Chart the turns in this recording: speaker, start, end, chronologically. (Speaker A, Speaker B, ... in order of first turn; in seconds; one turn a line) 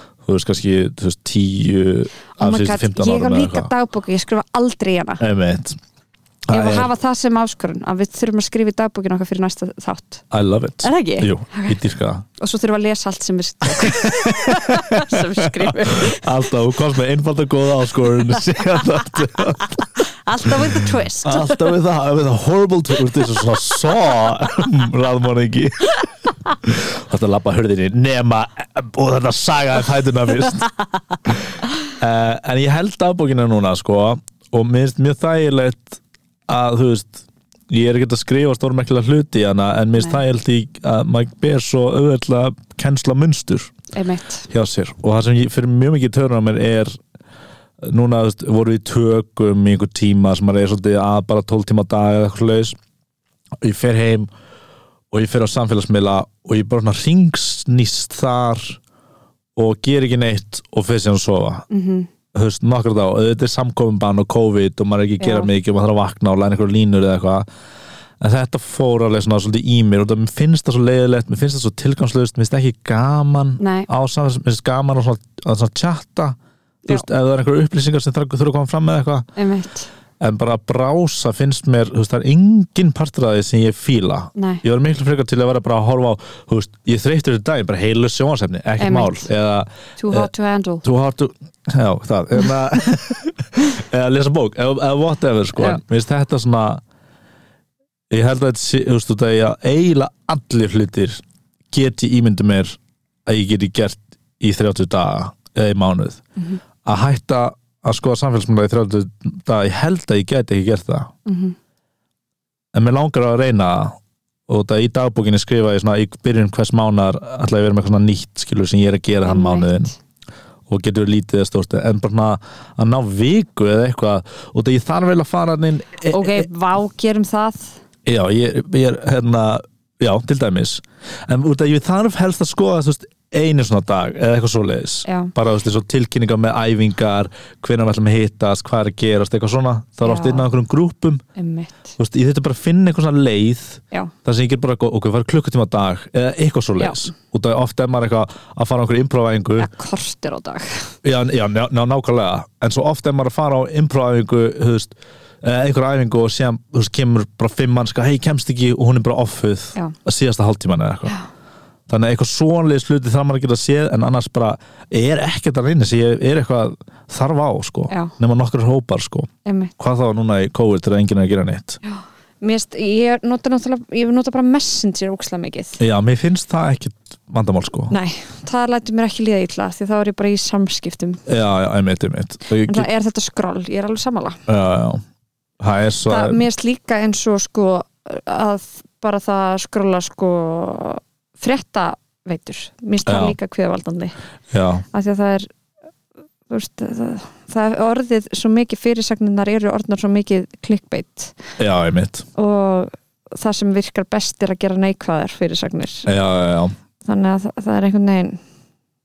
Speaker A: 0.2-3.7
Speaker B: 2.4-5.2
Speaker A: 5.2-5.8
Speaker A: 6.5-6.9
Speaker B: 6.5-10.2
Speaker A: 10.3-12.2
Speaker B: 10.8-11.8
Speaker B: 12.4-16.4
Speaker A: 13.8-19.9
Speaker B: 20.2-21.7
Speaker A: 20.4-26.0
Speaker A: 26.6-30.7
Speaker A: 32.0-43.7
Speaker B: 43.9-44.5
Speaker A: 44.5-46.9
Speaker A: 47.8-52.8
Speaker A: 53.6-54.3
Speaker A: 55.1-58.8
Speaker A: 59.5-61.6
Speaker B: 61.7-62.1
Speaker A: 62.3-67.5
Speaker B: 65.2-65.5
Speaker A: 68.2-76.3
Speaker B: 73.6-73.9
Speaker A: 76.9-79.3
Speaker B: 79.3-79.9
Speaker A: 80.2-90.3
Speaker B: 84.3-84.6
Speaker B: 88.8-89.3
Speaker B: 90.0-90.8
Speaker A: 90.8-96.8
Speaker B: 95.5-95.8
Speaker A: 98.1-106.2
Speaker A: 106.8-111.1
Speaker B: 111.2-111.5
Speaker A: 112.7-114.0
Speaker A: 114.5-119.9
Speaker B: 119.2-119.9
Speaker A: 120.7-126.5
Speaker B: 126.1-127.8
Speaker A: 128.0-141.2
Speaker B: 135.1-135.3
Speaker B: 140.0-140.5
Speaker B: 141.3-141.9
Speaker A: 142.0-149.7
Speaker B: 146.8-147.1
Speaker B: 149.6-150.9
Speaker A: 151.0-161.2
Speaker A: 161.9-171.8
Speaker B: 167.9-168.1
Speaker B: 169.4-169.7
Speaker B: 171.8-175.8
Speaker A: 175.8-177.9
Speaker B: 177.9-181.2
Speaker A: 181.3-182.9
Speaker B: 182.5-184.4
Speaker A: 184.5-185.0
Speaker A: 185.6-186.4
Speaker B: 186.1-194.1
Speaker A: 193.1-193.4
Speaker A: 194.5-194.8
Speaker B: 194.9-195.5
Speaker B: 196.5-201.4
Speaker A: 201.6-202.2
Speaker B: 202.3-206.1
Speaker A: 206.1-206.7
Speaker B: 207.0-208.4